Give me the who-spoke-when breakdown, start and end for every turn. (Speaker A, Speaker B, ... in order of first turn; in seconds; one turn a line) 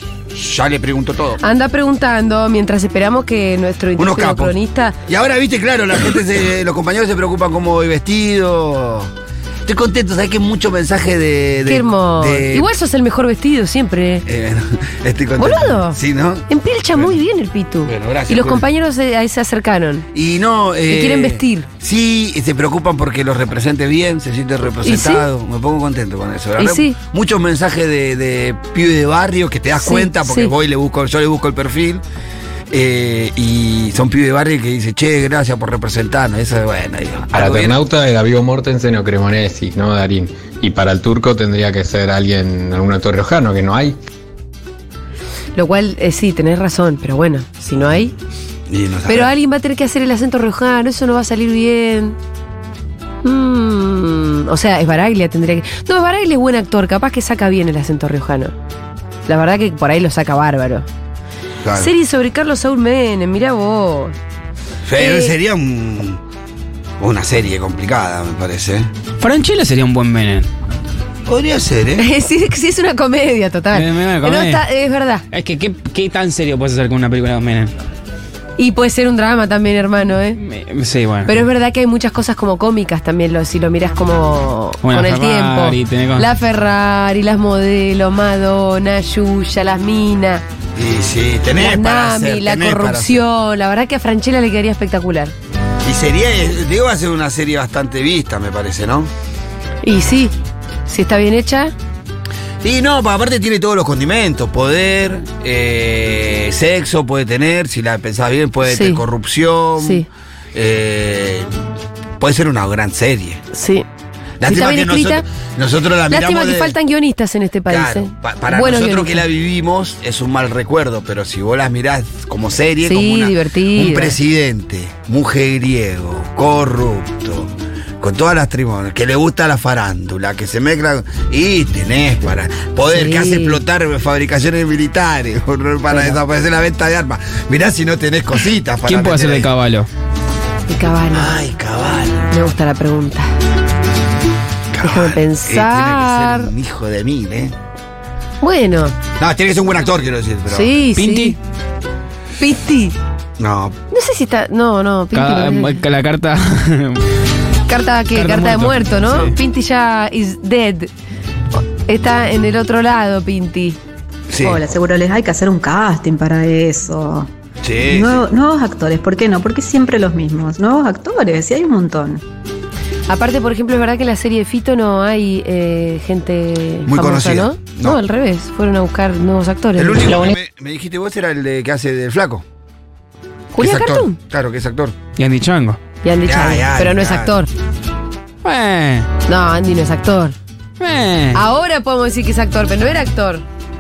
Speaker A: 0.3-1.4
Speaker B: 1.4-5.0
Speaker A: 4.0-4.5
Speaker A: 5.0-9.1
Speaker A: 9.7-12.7
Speaker B: 11.7-14.2
Speaker A: 14.2-17.1
Speaker B: 15.4-16.0
Speaker B: 16.5-20.1
Speaker A: 17.8-18.6
Speaker A: 20.1-32.0
Speaker B: 20.9-21.7
Speaker B: 24.8-25.2
Speaker B: 26.6-27.0
Speaker B: 29.8-30.5
Speaker A: 32.7-37.8
Speaker C: 37.4-44.0
Speaker B: 45.5-48.1
Speaker A: 47.8-48.1
Speaker A: 48.7-49.3
Speaker B: 49.0-52.1
Speaker B: 53.2-58.5
Speaker B: 59.2-60.9
Speaker A: 61.6-61.9
Speaker B: 61.8-64.1
Speaker A: 64.8-66.2
Speaker B: 65.0-65.3
Speaker A: 67.0-68.9
Speaker D: 69.2-70.5
Speaker A: 71.2-72.1
Speaker B: 72.0-75.2
Speaker D: 73.7-74.6
Speaker D: 75.3-77.7
Speaker B: 78.6-80.4
Speaker D: 80.4-81.4
Speaker B: 81.2-90.4
Speaker D: 84.8-86.3
Speaker A: 90.7-93.2
Speaker B: 91.6-95.3
Speaker A: 95.8-99.1
Speaker B: 99.8-100.3
Speaker B: 100.9-101.7
Speaker A: 102.6-111.5
Speaker B: 108.7-109.0
Speaker B: 109.8-110.1
Speaker A: 112.2-113.4
Speaker B: 113.5-113.8
Speaker A: 114.4-116.7
Speaker B: 114.4-115.2
Speaker B: 116.1-119.2
Speaker A: 117.7-139.5
Speaker B: 122.8-124.2
Speaker B: 132.9-133.6
Speaker B: 135.9-136.2
Speaker D: 138.8-139.9
Speaker B: 140.7-141.3
Speaker A: 141.1-142.3
Speaker B: 142.3-143.3
Speaker A: 144.7-147.5
Speaker B: 144.8-146.5
Speaker B: 148.4-149.0
Speaker A: 149.2-150.7
Speaker B: 150.5-151.4
Speaker D: 150.9-151.4
Speaker B: 152.4-152.9
Speaker A: 153.4-153.8
Speaker B: 153.9-155.8
Speaker D: 155.1-157.0
Speaker B: 157.7-160.9
Speaker D: 158.1-159.3
Speaker B: 161.7-163.8
Speaker A: 164.3-164.7
Speaker E: 164.4-167.3
Speaker A: 167.6-168.2
Speaker E: 167.8-172.2
Speaker B: 173.1-180.2
Speaker A: 176.9-178.0
Speaker A: 179.8-182.4
Speaker D: 180.1-180.3
Speaker B: 183.5-184.2
Speaker A: 183.6-185.0
Speaker D: 185.1-185.8
Speaker B: 186.0-187.5
Speaker A: 186.2-187.4
Speaker D: 188.4-189.1
Speaker B: 189.3-190.3
Speaker D: 190.8-191.4
Speaker B: 191.3-193.4